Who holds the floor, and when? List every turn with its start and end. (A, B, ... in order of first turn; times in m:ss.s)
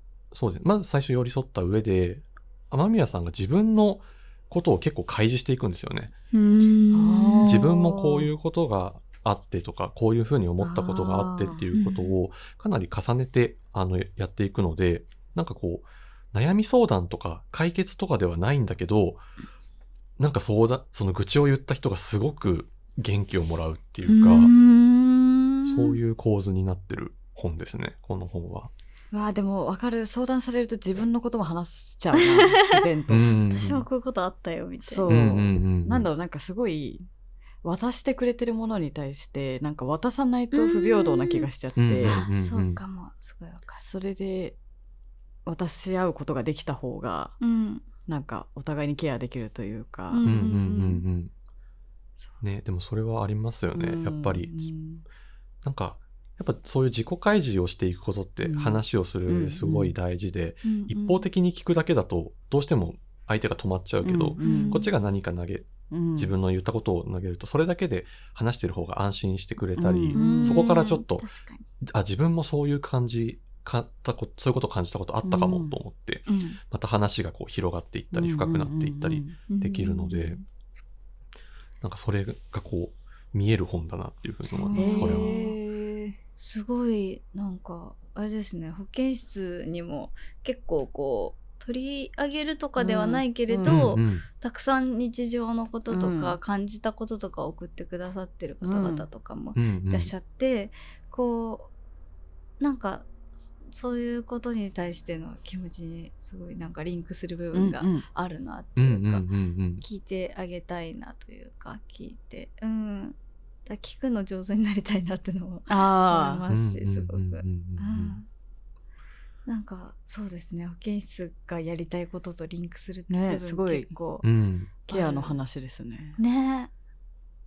0:00.3-0:06.1 A
0:06.3-0:07.6 B
0:06.9-0:08.3 C
0:07.4-0:19.2 A
0:10.6-0:11.7 C
0:11.7-0:12.2 B
0:20.2-0:24.5 A
0:24.1-0:26.0 B
0:25.6-0:28.7 A
0:29.1-0:33.3 C
0:32.2-0:32.9 B
0:33.1-0:33.9 A
0:33.5-0:35.2 B
0:34.8-0:37.1 C
0:35.1-0:36.1 A
0:37.6-0:42.2 C
0:40.5-0:41.5 B
0:41.8-0:42.8 A
0:42.0-0:43.8 B
0:43.8-0:44.6 C
0:45.5-0:47.4 C
0:47.4-0:47.9 B
0:48.1-0:50.3 C
0:50.1-0:51.0 B
0:50.2-0:51.3 A
0:52.4-0:54.7 A
0:53.7-0:55.0 C
0:55.6-1:11.3 A
0:58.4-1:00.0 C
1:00.6-1:01.3 B
1:04.0-1:04.9 C
1:04.4-1:04.9 B
1:05.9-1:06.3 C
1:09.8-1:10.7 C
1:10.2-1:11.7 B
1:11.8-1:20.4 A
1:15.2-1:15.8 C
1:16.3-1:16.6 B
1:18.1-1:19.4 C
1:19.5-1:20.4 B
1:21.8-1:25.4 A
1:24.5-1:25.6 B
1:24.8-1:26.2 C
1:26.4-1:41.7 B
1:32.8-1:33.8 C
1:33.6-1:34.3 A
1:35.9-1:36.4 C
1:38.6-1:39.1 C
1:39.6-1:40.1 A
1:42.6-1:43.1 B
1:43.6-1:49.2 B
1:47.5-1:48.1 C
1:48.8-1:49.8 A
1:49.8-1:58.3 B
1:55.7-1:56.4 C
1:56.5-1:58.2 A
1:59.5-2:04.3 B
2:03.1-2:03.9 C
2:04.2-2:04.7 A
2:04.9-2:05.4 B
2:04.9-2:06.2 C
2:06.2-2:06.7 B